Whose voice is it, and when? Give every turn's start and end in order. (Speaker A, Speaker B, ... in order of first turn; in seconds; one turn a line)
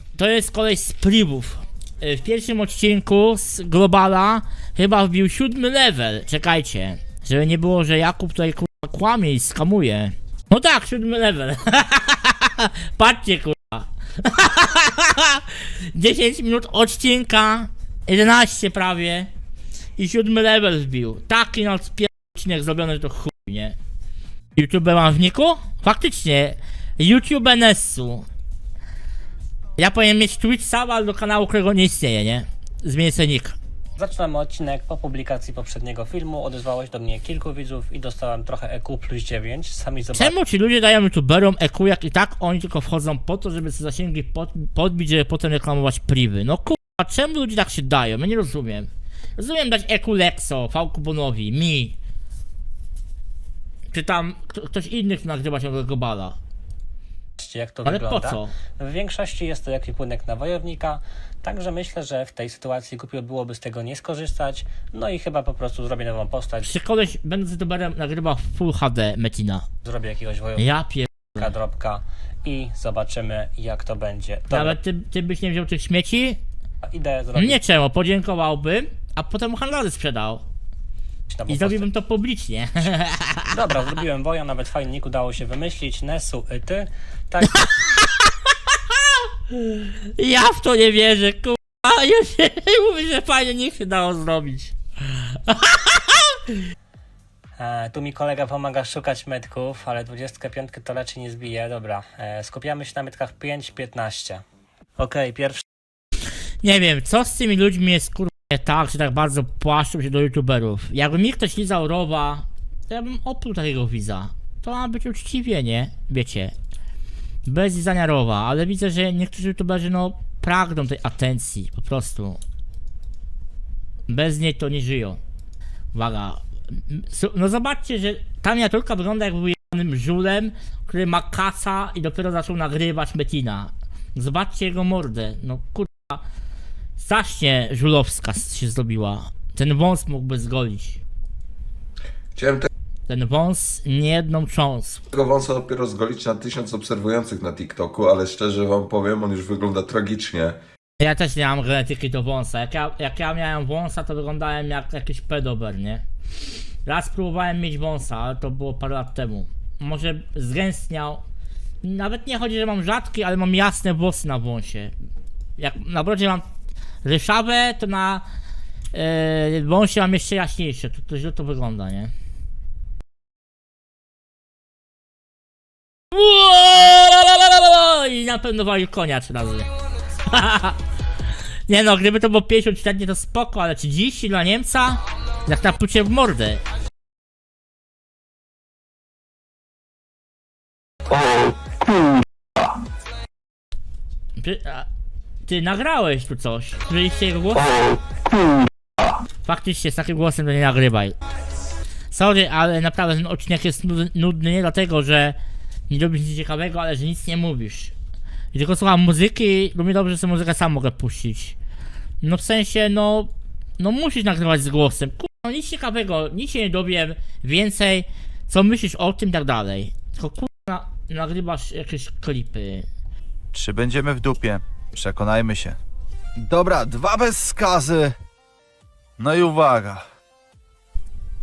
Speaker A: 0.1-19.3
Speaker A: 20.0-23.8
Speaker A: 24.6-28.3
Speaker A: 29.8-33.6
Speaker B: 34.0-40.4
Speaker A: 40.1-52.0
Speaker A: 53.9-56.4
Speaker B: 57.4-66.8
Speaker A: 57.9-58.5
Speaker A: 66.6-69.7
Speaker B: 69.8-70.7
Speaker A: 70.6-71.5
Speaker B: 71.2-74.8
Speaker A: 74.5-76.4
Speaker B: 76.9-77.6
Speaker A: 77.4-80.5
Speaker B: 81.3-81.9
Speaker A: 81.5-83.6
Speaker B: 83.5-87.8
Speaker A: 87.6-96.6
Speaker B: 97.6-104.4
Speaker B: 105.0-105.6
Speaker A: 106.6-116.5
Speaker A: 117.5-122.4
Speaker A: 124.1-125.2
Speaker A: 125.9-136.2
Speaker A: 137.0-141.0
Speaker C: 142.4-142.7
Speaker A: 143.1-145.1
Speaker C: 145.1-150.6
Speaker A: 151.0-156.1
Speaker A: 156.8-161.2
Speaker A: 161.8-164.9
Speaker A: 165.6-166.5
Speaker A: 167.0-168.2
Speaker A: 168.9-172.1
Speaker A: 176.1-180.8
Speaker A: 181.7-186.6
Speaker A: 194.4-194.9
Speaker A: 195.4-197.8
Speaker A: 199.4-201.2
Speaker A: 202.1-205.4
Speaker A: 205.9-207.9
Speaker A: 208.5-211.6
Speaker A: 212.2-222.9
Speaker D: 223.5-225.8
Speaker D: 226.4-228.2
Speaker D: 229.2-230.1